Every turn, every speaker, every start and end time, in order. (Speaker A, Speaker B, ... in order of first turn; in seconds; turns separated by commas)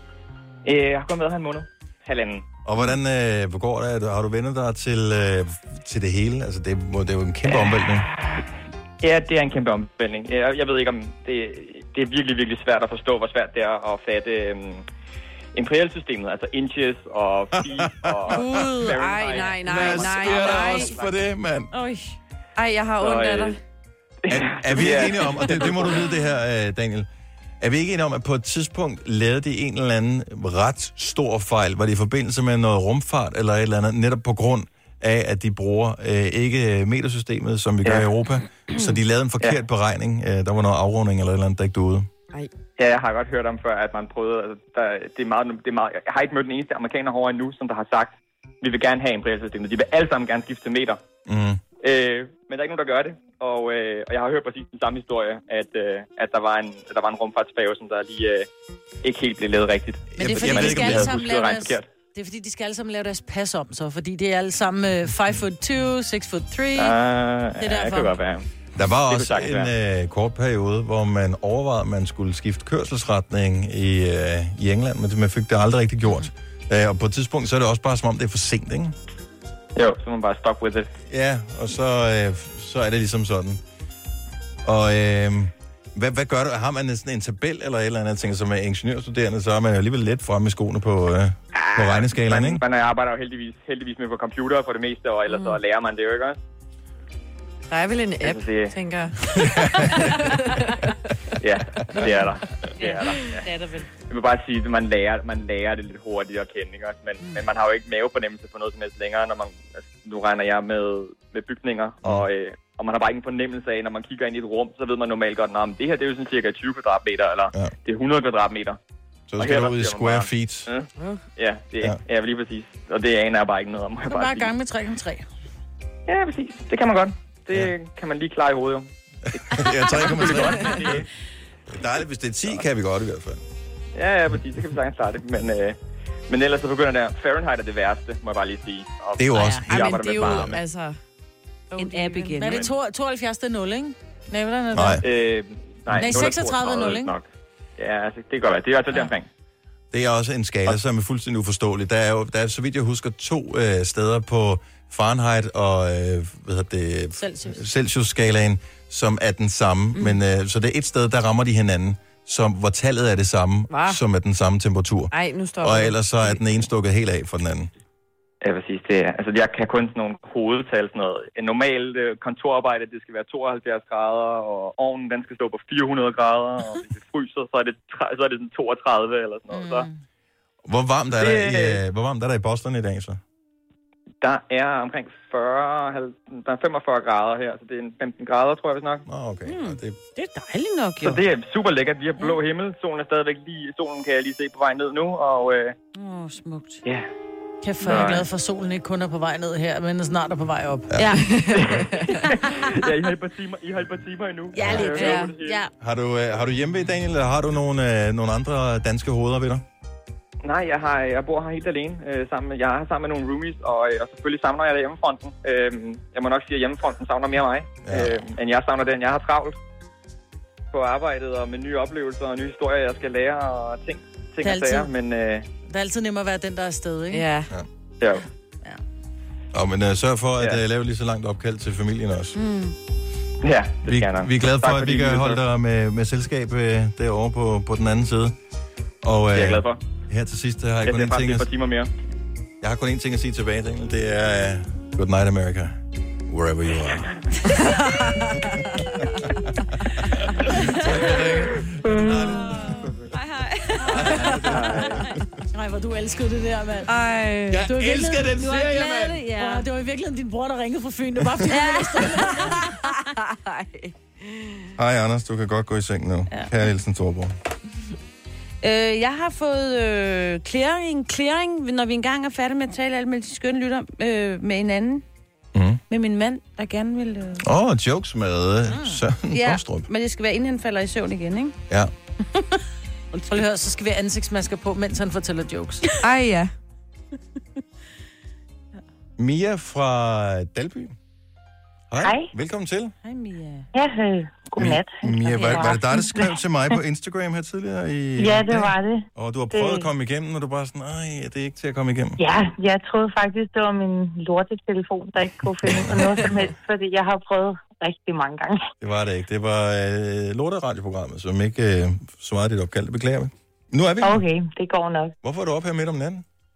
Speaker A: 0.6-2.5, Speaker B: 2.6-8.1, Speaker A: 9.0-14.8, Speaker A: 15.5-21.0, Speaker B: 17.6-18.7, Speaker C: 18.3-21.0, Speaker B: 19.6-21.7, Speaker D: 21.7-22.2, Speaker C: 22.6-23.6, Speaker A: 23.0-23.6, Speaker A: 24.3-25.7, Speaker B: 24.3-27.1, Speaker B: 27.6-42.1, Speaker A: 42.8-51.0, Speaker B: 51.2-51.6, Speaker A: 51.8-58.5, Speaker A: 59.0-61.9, Speaker E: 60.1-67.0, Speaker B: 60.2-61.1, Speaker A: 66.8-68.5, Speaker E: 67.6-68.2, Speaker B: 68.8-78.9, Speaker A: 69.0-69.7, Speaker A: 79.8-80.9, Speaker B: 81.1-83.6, Speaker B: 84.6-92.6, Speaker A: 91.5-96.4, Speaker C: 97.7-99.2, Speaker A: 98.2-98.7, Speaker B: 99.5-100.1, Speaker C: 99.9-100.7, Speaker A: 101.4-103.4, Speaker D: 101.9-103.9, Speaker A: 104.1-118.8, Speaker B: 119.3-120.7, Speaker A: 119.4-124.5, Speaker E: 124.1-125.3, Speaker A: 126.1-131.0, Speaker B: 129.3-131.0, Speaker B: 131.7-133.4, Speaker A: 133.9-135.8, Speaker A: 136.3-140.6, Speaker B: 139.2-140.6, Speaker C: 139.7-141.0, Speaker C: 141.7-142.6, Speaker D: 141.8-142.7, Speaker E: 142.4-145.0, Speaker B: 144.7-145.0, Speaker A: 145.0-149.3, Speaker E: 145.9-147.1, Speaker B: 149.9-167.7, Speaker E: 157.2-157.6, Speaker C: 163.7-164.0, Speaker C: 165.1-166.4, Speaker A: 168.4-179.9, Speaker E: 179.5-180.0, Speaker B: 180.6-183.2, Speaker A: 181.2-181.8, Speaker A: 184.2-189.0, Speaker B: 189.1-189.9, Speaker D: 189.5-191.2, Speaker A: 191.0-195.7, Speaker D: 195.9-196.8, Speaker E: 197.6-201.9, Speaker A: 197.8-198.2, Speaker D: 201.0-201.2, Speaker A: 201.6-205.6, Speaker D: 204.5-205.7, Speaker C: 204.8-205.3, Speaker B: 205.8-209.6, Speaker A: 210.4-219.6, Speaker B: 217.8-218.2, Speaker A: 220.7-225.5, Speaker E: 224.4-224.9, Speaker E: 225.7-227.2, Speaker C: 227.1-227.5, Speaker B: 229.5-232.4, Speaker D: 232.3-232.7, Speaker A: 233.4-235.4, Speaker B: 233.8-238.3, Speaker B: 239.0-241.5, Speaker A: 239.3-239.8, Speaker A: 240.8-241.9, Speaker B: 242.6-247.1, Speaker B: 250.8-253.1, Speaker D: 252.7-255.0, Speaker B: 253.9-255.2, Speaker E: 254.2-254.6, Speaker E: 255.5-256.9, Speaker C: 256.9-257.7, Speaker B: 257.5-259.2, Speaker E: 257.6-258.6, Speaker D: 258.3-259.6, Speaker E: 259.3-262.6, Speaker D: 261.5-263.0, Speaker C: 263.4-263.8, Speaker B: 264.8-267.3, Speaker D: 268.6-275.0, Speaker B: 275.5-275.8, Speaker D: 275.9-277.4, Speaker B: 277.4-279.9, Speaker D: 279.3-281.6, Speaker D: 283.1-283.4, Speaker E: 283.3-285.9, Speaker C: 286.0-286.5, Speaker B: 289.2-290.9, Speaker B: 291.9-292.9, Speaker F: 292.0-292.3, Speaker D: 293.0-293.7, Speaker F: 293.7-296.3, Speaker B: 294.6-302.2, Speaker D: 295.2-295.7, Speaker F: 298.2-299.9, Speaker F: 302.2-308.6, Speaker B: 305.6-306.5, Speaker B: 308.8-314.2, Speaker F: 314.0-315.1, Speaker B: 315.2-316.2